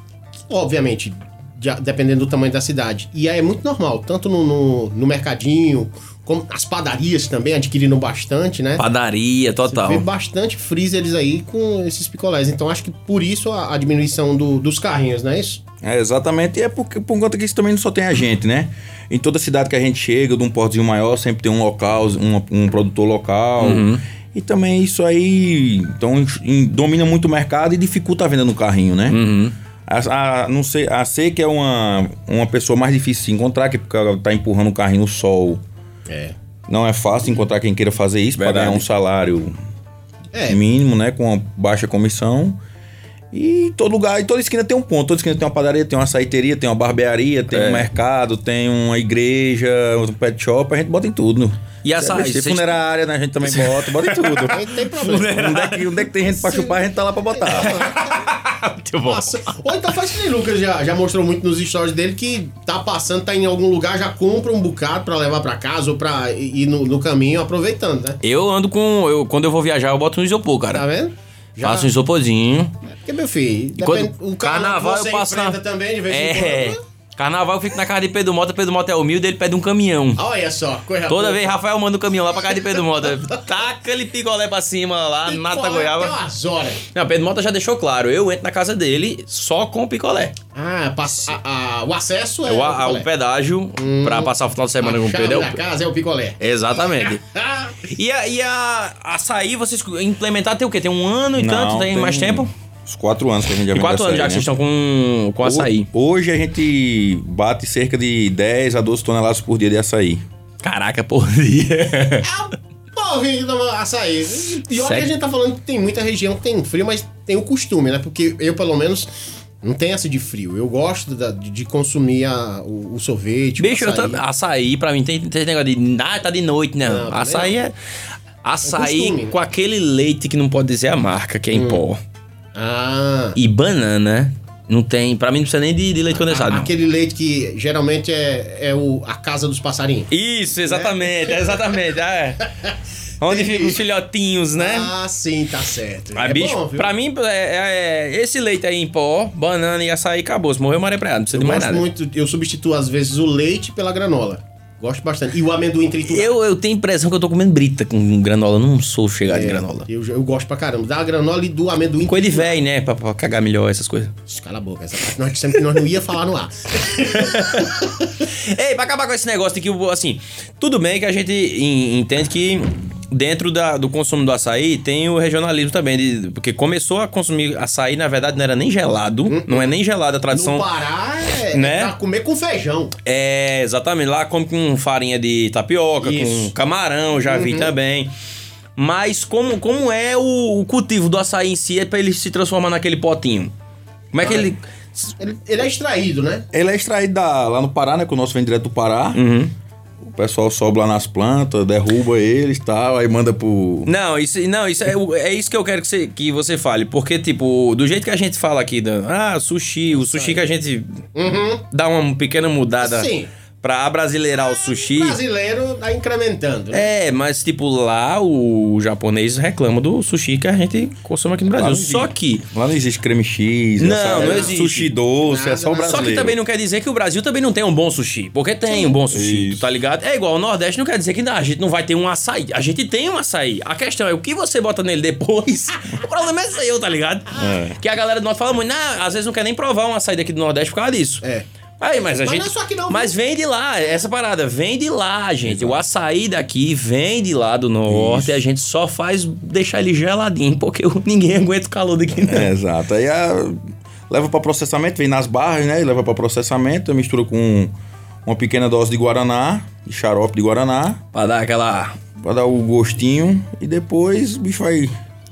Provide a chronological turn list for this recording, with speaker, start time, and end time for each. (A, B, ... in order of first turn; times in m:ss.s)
0:00.5-0:08.8 A
0:08.8-0:10.0 B
0:09.7-0:15.6 A
0:15.8-0:29.2 C
0:23.6-0:24.0 B
0:29.1-0:29.5 B
0:29.9-0:35.6 C
0:36.1-0:36.3 A
0:36.7-0:39.5 C
0:38.4-0:38.8 B
0:40.3-0:40.6 A
0:40.5-0:42.6 C
0:43.3-0:54.6 C
0:47.5-0:47.9 B
0:51.8-0:52.8 B
0:53.4-0:55.9 B
0:54.5-0:55.4 A
0:55.2-0:57.8 C
0:56.2-0:56.8 A
0:57.3-0:58.3 A
0:57.5-0:59.5 B
0:59.0-1:08.2 A
1:08.2-1:10.8 B
1:10.7-1:11.9 A
1:11.6-1:12.7 B
1:13.0-1:16.8 A
1:13.8-1:15.6 B
1:16.1-1:20.2 B
1:20.2-1:21.5 A
1:21.1-1:26.1 B
1:22.5-1:23.4 A
1:25.2-1:26.8 A
1:26.9-1:30.3 B
1:30.5-1:33.1 A
1:32.4-1:35.6 B
1:33.8-1:36.4 A
1:36.4-1:37.2 B
1:37.0-1:37.8 A
1:37.8-1:42.5 B
1:41.4-1:44.5 C
1:43.7-1:45.9 B
1:45.4-1:50.2 C
1:50.6-1:52.3 B
1:52.2-1:59.1 A
1:54.8-1:55.1 B
1:59.6-2:04.2 A
2:03.6-2:07.7 B
2:06.8-2:07.6 A
2:08.4-2:12.0 B
2:08.6-2:09.3 A
2:11.5-2:11.8 A
2:12.5-2:13.4 A
2:13.4-2:16.7 B
2:16.3-2:20.1 A
2:20.1-2:22.4 B
2:20.6-2:21.8 A
2:23.2-2:24.9 B
2:23.2-2:23.8 A
2:24.6-2:26.9 A
2:26.2-2:31.8 B
2:31.3-2:36.3 A
2:36.1-2:39.8 B
2:39.3-2:42.6 A
2:42.1-2:44.1 B
2:44.3-2:48.1 A
2:47.0-2:47.7 B
2:48.2-3:00.6 B
2:59.3-2:59.7 A
3:00.3-3:02.9 A
3:01.5-3:01.9 B
3:03.0-3:08.1 B
3:06.0-3:06.5 A
3:07.2-3:07.7 A
3:08.8-3:13.5 B
3:14.1-3:14.6 B
3:14.2-3:14.5 A
3:15.2-3:16.4 A
3:16.5-3:19.2 C
3:19.1-3:19.5 B
3:20.0-3:23.9 C
3:23.8-3:30.9 B
3:29.9-3:30.4 A
3:31.1-3:31.6 A
3:31.7-3:33.1 B
3:32.8-3:33.3 A
3:33.6-3:35.2 B
3:34.4-3:36.9 A
3:36.7-3:42.4 B
3:41.5-3:46.4 C
3:43.8-3:44.9 B
3:44.0-3:44.6 A
3:45.2-3:46.3 A
3:45.8-4:01.2 B
3:49.1-3:49.6 C
3:57.3-3:57.8 C
4:01.8-4:12.5 B
4:02.2-4:03.1 A
4:05.4-4:05.8 C
4:07.9-4:08.4 C
4:12.2-4:17.7 C
4:18.2-4:21.0 C
4:21.1-4:21.9 B
4:22.2-4:24.9 C